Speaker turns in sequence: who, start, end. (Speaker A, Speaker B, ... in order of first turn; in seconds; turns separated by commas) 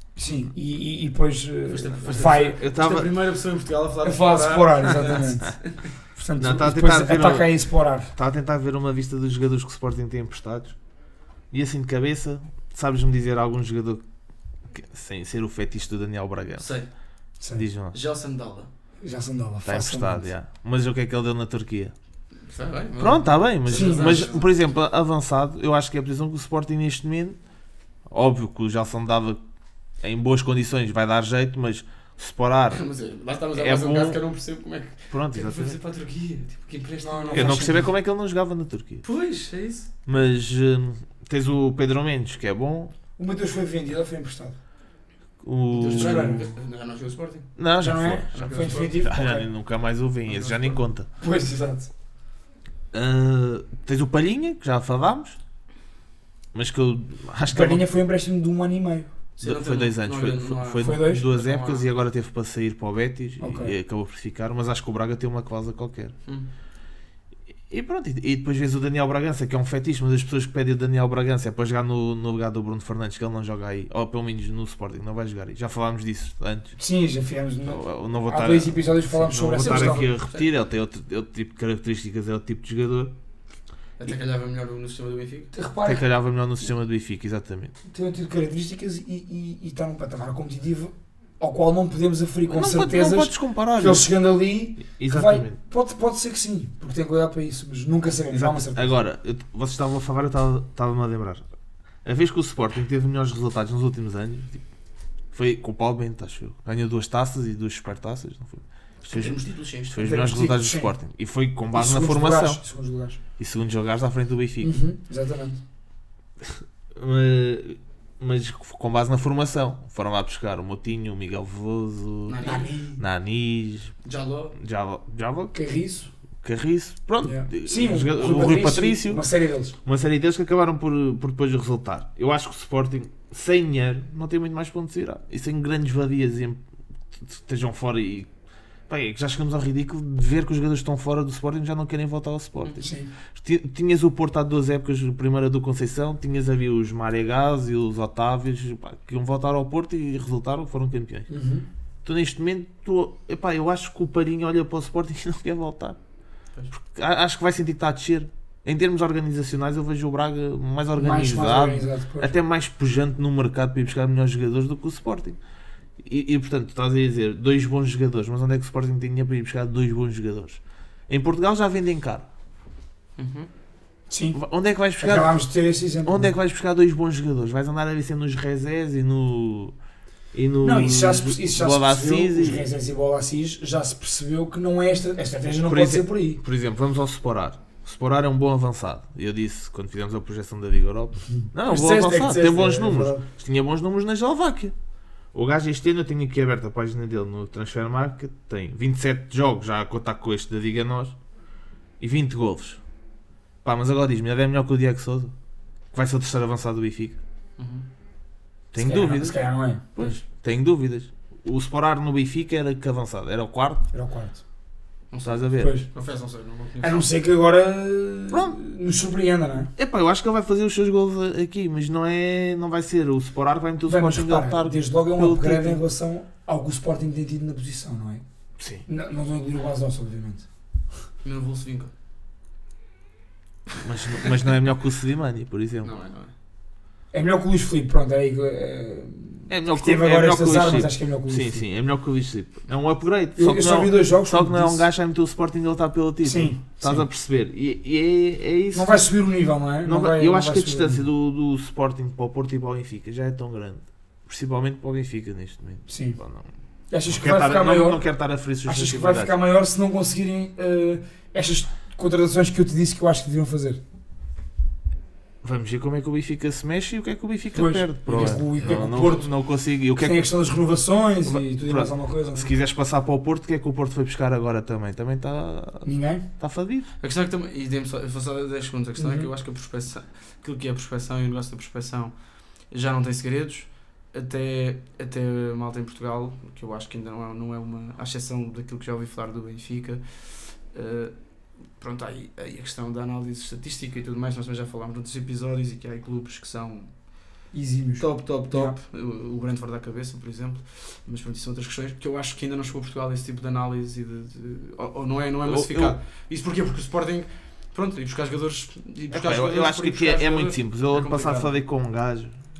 Speaker A: 0.2-2.6, Speaker B: 1.7-5.8, Speaker C: 2.1-3.1, Speaker A: 4.0-8.1, Speaker C: 6.4-10.8, Speaker C: 11.5-14.0, Speaker C: 14.7-16.7, Speaker B: 16.6-16.9, Speaker A: 17.4-17.7, Speaker C: 17.5-18.0, Speaker B: 17.9-18.7, Speaker A: 19.0-20.3, Speaker C: 19.7-21.9, Speaker B: 22.5-24.5, Speaker C: 23.0-27.4, Speaker A: 23.7-24.3, Speaker C: 28.1-29.4, Speaker C: 30.0-32.8, Speaker B: 32.7-37.7, Speaker C: 33.5-34.2, Speaker C: 35.1-35.8, Speaker A: 37.0-37.9, Speaker C: 37.3-39.0, Speaker B: 39.0-39.9, Speaker C: 40.1-42.9, Speaker A: 43.2-44.6, Speaker C: 45.4-46.4, Speaker B: 45.7-47.5, Speaker A: 46.0-46.5, Speaker C: 47.6-51.1, Speaker A: 47.8-49.5, Speaker B: 48.3-49.0, Speaker B: 50.3-50.8, Speaker A: 51.2-51.9, Speaker C: 52.9-55.4, Speaker C: 56.5-57.9, Speaker A: 57.5-59.1, Speaker B: 59.4-61.9, Speaker C: 59.4-66.2, Speaker A: 60.8-61.3, Speaker A: 63.4-63.8, Speaker C: 67.7-76.8, Speaker A: 76.8-80.1, Speaker C: 77.7-83.1, Speaker B: 79.5-80.5, Speaker B: 84.0-85.5, Speaker A: 85.5-86.0, Speaker C: 85.8-87.7, Speaker A: 87.9-99.0, Speaker C: 92.5-94.1, Speaker C: 95.0-95.5, Speaker C: 98.3-101.5, Speaker C: 102.0-104.6, Speaker C: 105.3-112.6, Speaker B: 109.0-110.1, Speaker A: 110.0-111.0, Speaker A: 111.7-113.2, Speaker C: 113.4-114.8, Speaker A: 114.6-115.6, Speaker C: 116.4-124.0, Speaker B: 122.3-122.7, Speaker A: 122.4-123.0, Speaker B: 124.0-124.5, Speaker C: 124.6-125.6, Speaker A: 125.5-126.1, Speaker C: 126.4-129.3, Speaker A: 127.2-129.8, Speaker C: 129.8-136.6, Speaker C: 137.2-138.3, Speaker C: 138.9-151.3, Speaker B: 142.6-142.9, Speaker A: 142.8-143.1, Speaker A: 151.3-151.7, Speaker C: 152.1-156.0, Speaker C: 156.7-165.4, Speaker A: 161.0-162.3, Speaker C: 166.0-172.3, Speaker B: 173.2-173.5, Speaker A: 174.1-174.4, Speaker C: 174.3-179.8, Speaker A: 175.0-176.3, Speaker C: 180.3-182.7, Speaker A: 180.6-186.4, Speaker C: 185.7-194.7, Speaker A: 191.3-193.2, Speaker C: 195.3-201.2, Speaker C: 202.0-202.8, Speaker C: 203.6-205.3, Speaker C: 205.9-207.2, Speaker B: 207.6-207.9, Speaker C: 208.7-213.9, Speaker A: 208.8-209.8, Speaker A: 213.9-214.4, Speaker B: 215.1-217.1, Speaker C: 215.2-215.7, Speaker A: 215.6-215.9, Speaker A: 216.8-219.7, Speaker C: 218.3-218.6, Speaker C: 219.8-225.8, Speaker A: 223.9-228.2, Speaker C: 228.6-228.8, Speaker A: 228.9-230.5, Speaker B: 231.2-231.9, Speaker C: 233.8-235.9, Speaker B: 235.8-236.3, Speaker A: 237.1-241.6, Speaker C: 239.5-249.1, Speaker A: 243.4-244.9, Speaker A: 246.2-247.1, Speaker A: 248.7-251.0, Speaker C: 249.8-256.5, Speaker A: 255.9-256.2, Speaker A: 256.9-258.0, Speaker C: 257.1-259.3, Speaker A: 258.6-263.8, Speaker C: 265.4-270.4, Speaker A: 267.5-269.3, Speaker B: 268.1-268.4, Speaker A: 270.0-272.5, Speaker C: 271.2-276.9, Speaker A: 275.9-276.3, Speaker B: 277.0-291.1, Speaker A: 279.0-279.3, Speaker B: 291.8-296.9, Speaker A: 297.5-298.8, Speaker B: 298.0-311.6, Speaker C: 305.4-305.9, Speaker C: 309.1-312.4